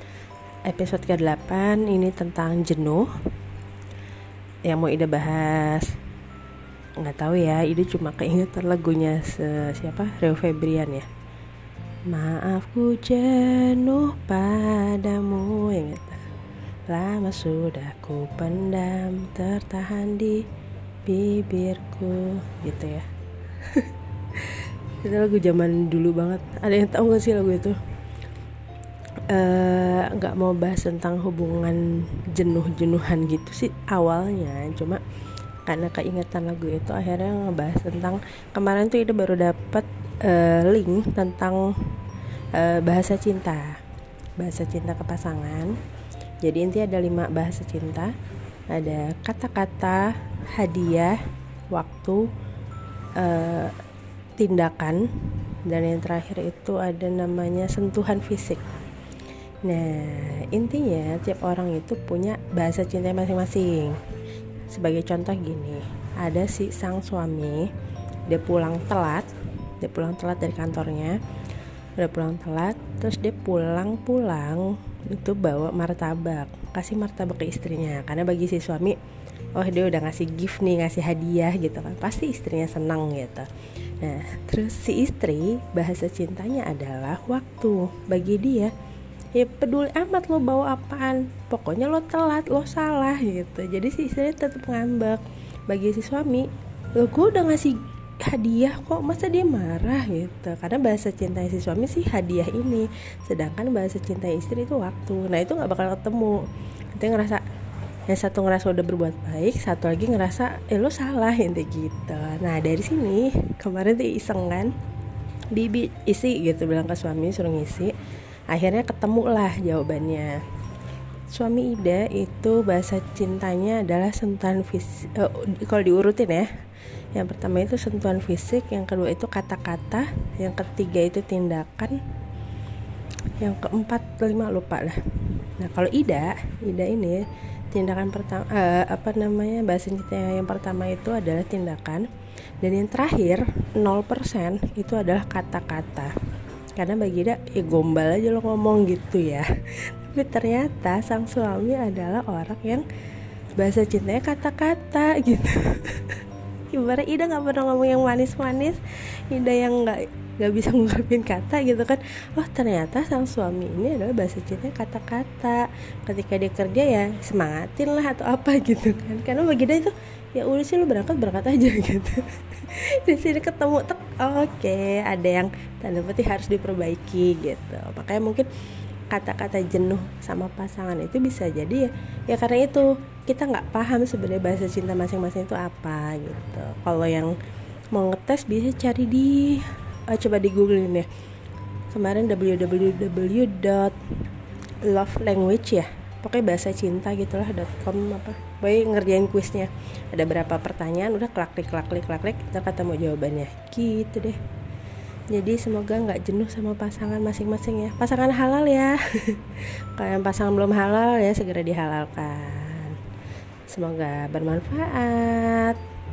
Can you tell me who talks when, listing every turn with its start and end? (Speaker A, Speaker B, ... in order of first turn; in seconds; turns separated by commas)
Speaker A: 0.6-3.1, Speaker A: 4.7-5.9, Speaker A: 7.0-11.1, Speaker A: 12.1-16.2, Speaker A: 16.9-20.4, Speaker A: 21.1-23.1, Speaker A: 23.6-27.8, Speaker A: 29.3-35.0, Speaker A: 35.6-41.7, Speaker A: 42.5-43.8, Speaker A: 44.4-45.8, Speaker A: 46.4-48.1, Speaker A: 48.7-51.2, Speaker A: 51.7-52.3, Speaker A: 53.2-53.7, Speaker A: 54.4-58.6, Speaker A: 59.6-64.0, Speaker A: 64.7-67.7, Speaker A: 68.3-71.2, Speaker A: 72.0-79.0, Speaker A: 79.5-83.5, Speaker A: 84.0-88.7, Speaker A: 89.3-106.4, Speaker A: 106.9-107.4, Speaker A: 108.1-114.7, Speaker A: 115.5-117.9, Speaker A: 118.5-120.4, Speaker A: 121.3-126.5, Speaker A: 127.1-132.0, Speaker A: 133.4-142.1, Speaker A: 142.6-146.1, Speaker A: 146.8-152.8, Speaker A: 153.6-178.5, Speaker A: 179.1-187.3, Speaker A: 187.9-191.1, Speaker A: 191.9-194.0, Speaker A: 194.8-204.4, Speaker A: 205.3-213.0, Speaker A: 213.7-215.8